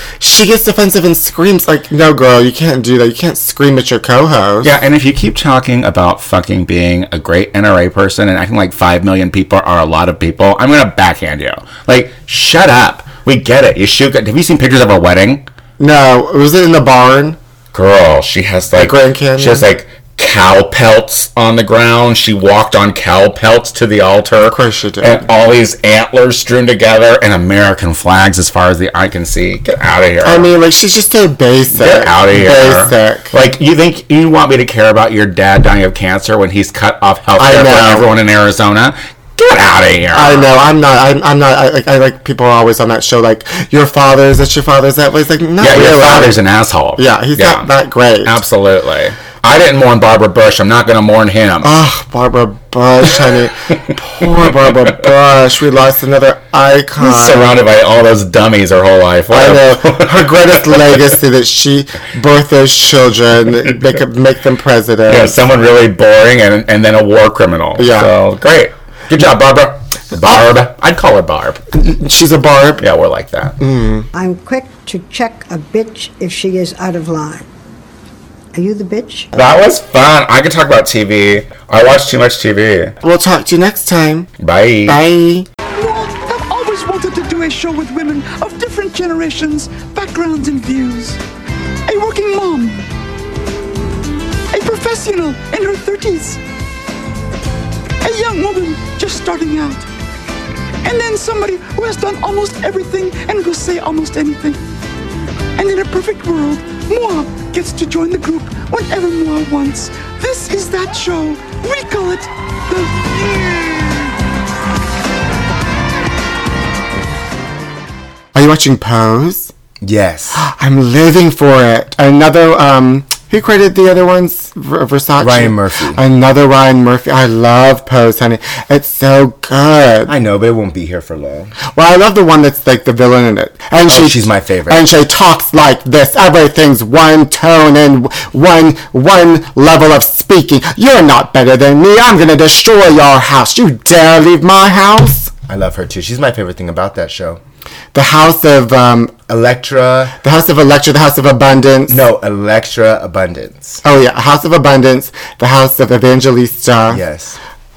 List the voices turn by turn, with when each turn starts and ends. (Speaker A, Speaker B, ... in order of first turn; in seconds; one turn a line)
Speaker A: 0.2-4.7
Speaker B: 4.6-15.5
Speaker A: 15.8-17.4
Speaker B: 17.7-30.5
Speaker A: 18.7-19.7
Speaker A: 24.4-25.3
Speaker A: 30.2-33.3
Speaker B: 31.7-40.5
Speaker A: 37.4-38.1
Speaker A: 40.1-46.4
Speaker B: 45.6-47.7
Speaker A: 47.0-48.4
Speaker B: 48.2-51.7
Speaker A: 51.6-57.6
Speaker B: 53.1-53.8
Speaker B: 54.4-54.9
Speaker B: 57.0-61.1
Speaker A: 59.3-65.4
Speaker B: 65.1-71.6
Speaker A: 67.8-68.1
Speaker A: 71.7-72.9
Speaker B: 72.8-73.6
Speaker A: 73.6-74.1
Speaker C: 74.1-77.5
Speaker C: 78.5-79.3
Speaker B: 79.3-83.0
Speaker A: 83.0-84.3
Speaker B: 84.4-85.0
Speaker A: 84.9-85.5
Speaker D: 85.8-91.2
Speaker D: 91.9-92.9
Speaker D: 94.5-96.4
Speaker D: 98.0-99.9
Speaker D: 100.8-104.7
Speaker D: 105.5-114.2
Speaker A: 118.3-119.5
Speaker E: 119.8-120.4
Speaker A: 120.4-130.1
Speaker E: 125.2-126.0
Speaker E: 130.1-131.5
Speaker A: 131.7-145.3
Speaker E: 133.9-134.8
Speaker E: 145.5-147.4
Speaker A: 147.9-149.1
Speaker E: 149.3-150.2
Speaker A: 150.2-152.1
Speaker E: 151.9-153.8
Speaker A: 153.8-157.0
Speaker E: 156.9-157.4